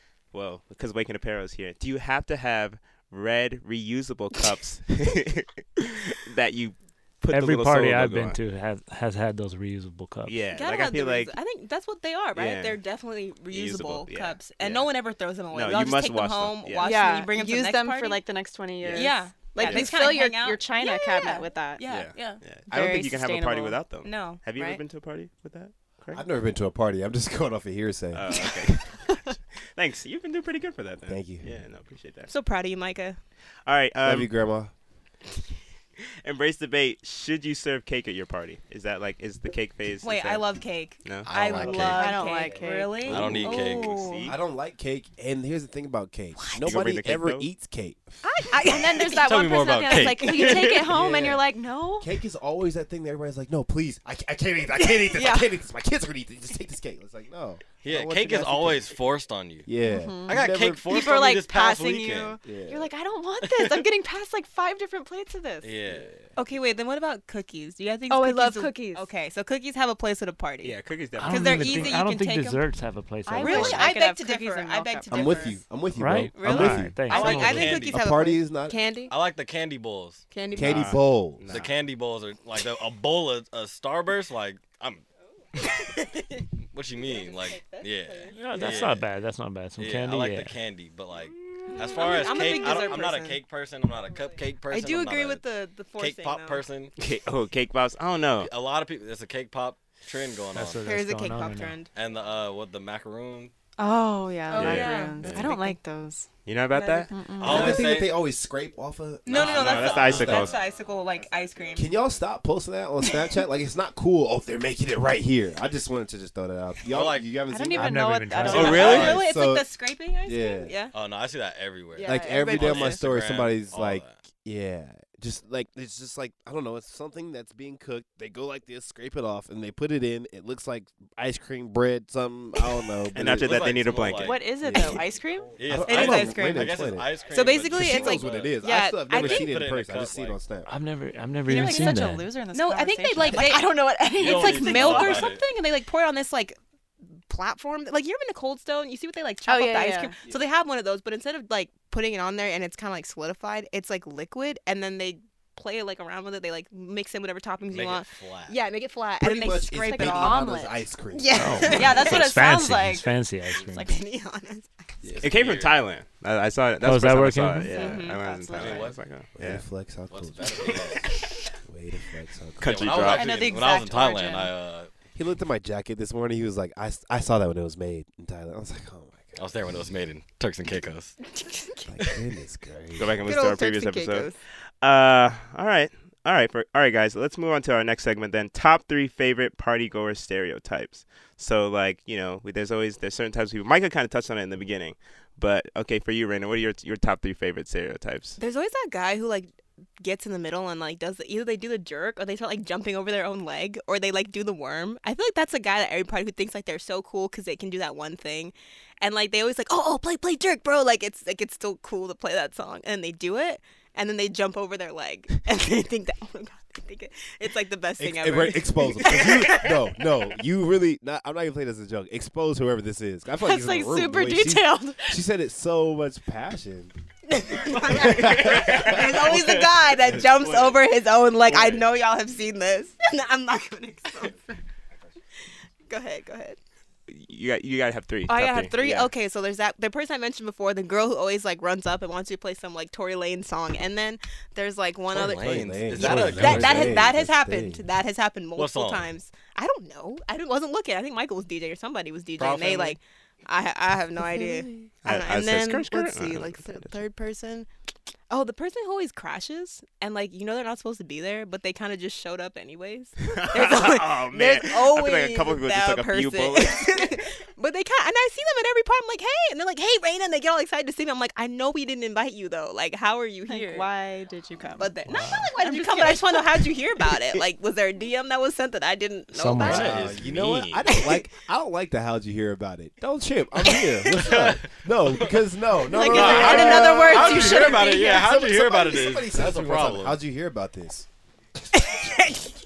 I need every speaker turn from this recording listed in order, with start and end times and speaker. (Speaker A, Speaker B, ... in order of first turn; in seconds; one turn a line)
Speaker A: 0.3-8.4
Speaker B: 7.3-10.4
Speaker A: 10.2-11.3
Speaker C: 10.5-18.2
Speaker A: 12.3-12.8
Speaker A: 13.5-14.9
Speaker A: 15.5-16.9
Speaker D: 16.8-21.8
Speaker A: 18.8-19.9
Speaker C: 18.9-22.4
Speaker A: 21.9-26.2
Speaker D: 22.7-23.8
Speaker C: 24.0-24.8
Speaker E: 26.1-28.6
Speaker A: 28.1-29.0
Speaker A: 29.7-32.3
Speaker E: 31.1-31.6
Speaker C: 32.3-33.2
Speaker A: 33.6-34.3
Speaker E: 34.0-34.7
Speaker A: 36.2-40.5
Speaker C: 40.0-44.3
Speaker A: 41.0-41.3
Speaker F: 41.2-42.2
Speaker D: 41.7-43.1
Speaker F: 43.0-44.1
Speaker A: 43.1-44.4
Speaker E: 44.2-48.9
Speaker A: 46.6-47.5
Speaker D: 48.2-52.1
Speaker F: 49.2-50.9
Speaker C: 50.2-50.6
Speaker E: 50.8-59.0
Speaker D: 54.8-55.5
Speaker F: 57.8-59.7
Speaker E: 59.6-60.9
Speaker D: 59.8-65.7
Speaker F: 60.2-62.4
Speaker E: 62.4-62.9
Speaker F: 63.4-63.9
Speaker F: 65.6-66.1
Speaker E: 65.9-66.2
Speaker C: 66.3-72.6
Speaker D: 68.1-69.1
Speaker A: 70.6-72.0
Speaker B: 71.2-73.9
Speaker D: 73.2-75.6
Speaker C: 73.3-75.6
Speaker E: 75.1-78.8
Speaker B: 75.9-77.7
Speaker C: 76.3-79.1
Speaker F: 77.1-78.0
Speaker F: 79.1-80.3
Speaker C: 80.3-81.0
Speaker E: 80.5-81.5
Speaker A: 80.6-81.7
Speaker F: 81.5-85.0
Speaker C: 85.6-88.9
Speaker F: 86.7-89.1
Speaker B: 88.3-90.6
Speaker F: 89.8-95.4
Speaker C: 91.7-93.4
Speaker C: 94.7-96.6
Speaker F: 96.0-96.9
Speaker A: 97.0-98.5
Speaker F: 98.4-100.9
Speaker B: 100.5-101.8
Speaker C: 100.8-101.9
Speaker F: 101.9-103.5
Speaker D: 103.8-106.3
Speaker C: 104.5-105.8
Speaker A: 104.5-105.5
Speaker A: 106.5-107.1
Speaker C: 106.7-107.8
Speaker D: 107.1-107.9
Speaker F: 107.4-108.2
Speaker E: 107.4-110.6
Speaker F: 109.3-110.6
Speaker C: 109.3-112.0
Speaker A: 109.4-110.6
Speaker E: 111.7-119.7
Speaker F: 116.8-117.4
Speaker D: 117.5-119.2
Speaker B: 117.7-119.0
Speaker A: 118.5-119.2
Speaker F: 118.5-119.2
Speaker C: 118.5-120.9
Speaker E: 120.2-120.7
Speaker F: 120.9-124.2
Speaker D: 122.0-122.5
Speaker C: 122.0-123.0
Speaker E: 122.0-133.6
Speaker A: 133.1-134.3
Speaker F: 133.2-134.5
Speaker D: 134.2-135.6
Speaker E: 134.6-137.1
Speaker F: 135.6-140.4
Speaker C: 135.8-136.8
Speaker C: 137.3-139.5
Speaker E: 137.7-140.7
Speaker D: 138.6-138.9
Speaker B: 140.7-142.4
Speaker D: 141.5-145.3
Speaker C: 141.5-146.6
Speaker F: 144.1-145.4
Speaker C: 147.3-160.5
Speaker D: 149.5-150.2
Speaker F: 157.7-158.6
Speaker E: 159.2-162.0
Speaker D: 159.8-160.8
Speaker C: 161.1-162.5
Speaker B: 161.3-163.9
Speaker D: 161.6-163.1
Speaker C: 163.6-164.9
Speaker F: 165.0-165.8
Speaker A: 165.2-169.6
Speaker B: 166.8-167.8
Speaker D: 167.6-168.9
Speaker C: 167.7-168.2
Speaker F: 168.5-169.0
Speaker E: 169.3-171.0
Speaker F: 170.1-171.2
Speaker E: 171.7-173.1
Speaker A: 172.6-173.5
Speaker F: 172.6-174.9
Speaker D: 173.1-174.5
Speaker E: 175.1-179.5
Speaker F: 179.3-181.2
Speaker C: 181.4-181.8
Speaker E: 181.8-183.3
Speaker A: 183.0-184.3
Speaker C: 183.2-184.4
Speaker A: 184.8-198.4
Speaker C: 198.4-199.5
Speaker C: 200.0-220.0
Speaker E: 218.0-226.9
Speaker D: 223.4-225.2
Speaker C: 227.3-234.6
Speaker E: 227.7-229.4
Speaker F: 229.2-229.6
Speaker E: 230.0-230.7
Speaker C: 235.9-236.6
Speaker A: 237.1-239.1
Speaker C: 238.3-257.7
Speaker F: 245.1-247.1
Speaker E: 245.2-247.8
Speaker F: 248.6-249.1
Speaker F: 252.4-253.0
Speaker A: 255.0-257.0
Speaker C: 258.3-273.9
Speaker A: 263.3-267.1
Speaker D: 273.5-277.1
Speaker C: 274.8-280.0
Speaker B: 279.3-280.0
Speaker F: 279.6-281.0
Speaker E: 279.6-291.1
Speaker C: 280.9-281.3
Speaker C: 283.6-284.3
Speaker F: 284.2-285.3
Speaker D: 285.9-287.8
Speaker C: 285.9-288.3
Speaker F: 286.0-290.2
Speaker E: 291.6-292.3
Speaker C: 291.8-292.5